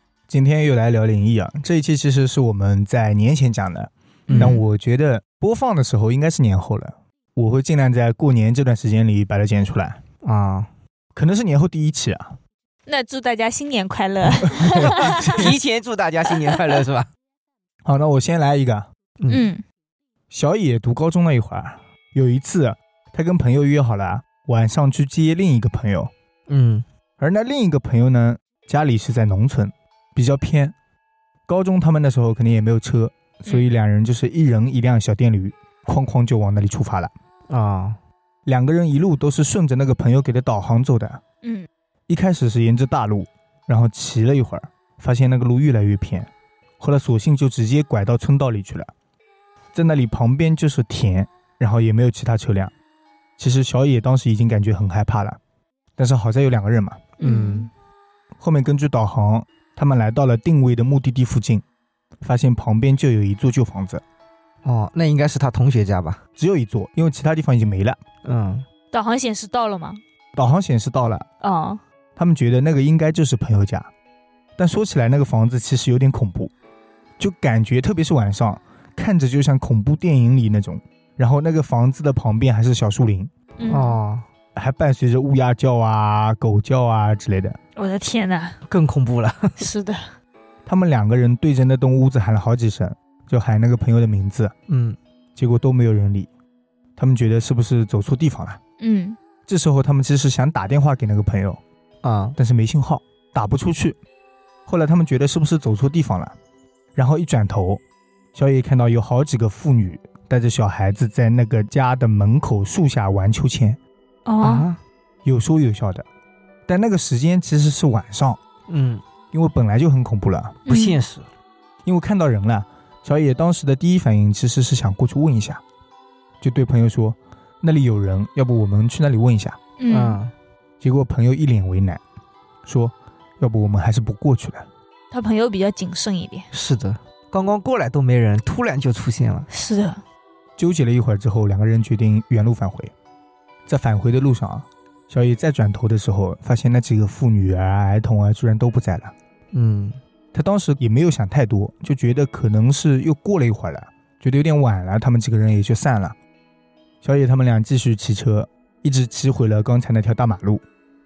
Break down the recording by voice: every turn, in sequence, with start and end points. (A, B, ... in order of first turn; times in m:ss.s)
0:00.3-0:10.0 A
0:04.3-0:04.6 B
0:04.3-0:04.6 C
0:10.2-0:10.7 B
0:11.1-0:12.4 A
0:12.9-0:15.5 C
0:14.4-0:15.6 A
0:15.0-0:17.1 B
0:17.8-0:18.9 A
0:19.2-0:19.5 B
0:19.3-0:19.6 C
0:20.3-0:26.1 A
0:26.5-0:26.8 B
0:27.2-0:30.8 A
0:31.5-0:37.1 A
0:37.5-0:38.0 B
0:38.4-0:41.2 A
0:41.4-0:41.7 C
0:42.1-0:48.9 A
0:49.7-0:52.7 A
0:53.4-0:55.4 A
0:56.0-0:57.1 A
0:57.2-0:57.7 B
0:57.2-0:57.7 C
0:58.4-1:01.6 A
1:02.2-1:04.0 A
1:04.6-1:06.2 B
1:06.4-1:08.0 A
1:08.2-1:08.7 B
1:08.9-1:10.0 C
1:10.3-1:11.2 A
1:11.4-1:11.8 C
1:12.2-1:13.9 A
1:14.6-1:16.5 A
1:17.2-1:23.3 A
1:23.6-1:24.0 C
1:23.7-1:24.2 B
1:24.6-1:27.6 A
1:27.8-1:28.6 C
1:28.7-1:29.6 B
1:29.6-1:30.1 C
1:30.7-1:34.5 A
1:34.7-1:35.0 B
1:35.4-1:36.3 A
1:37.0-1:38.6 A
1:38.8-1:39.2 C
1:39.5-1:41.6 A
1:42.0-1:42.4 B
1:42.4-1:44.0 A
1:44.7-1:46.3 A
1:46.9-1:47.8 A
1:48.3-1:53.8 A
1:54.2-1:54.7 C
1:54.4-1:54.8 B
1:55.2-1:56.0 A
1:56.7-1:58.4 A
1:58.7-1:59.0 B
1:59.3-2:00.6 A
2:00.7-2:01.0 C
2:00.7-2:01.3 B
2:01.8-2:05.6 A
2:06.4-2:09.6 A
2:09.8-2:10.2 C
2:09.9-2:10.3 B
2:10.8-2:12.0 A
2:12.6-2:14.7 A
2:15.1-2:16.5 C
2:16.5-2:19.5 B
2:19.5-2:20.0 C
2:20.6-2:22.9 A
2:23.7-2:29.1 A
2:29.5-2:30.0 B
2:30.3-2:36.2 A
2:37.0-2:40.6 A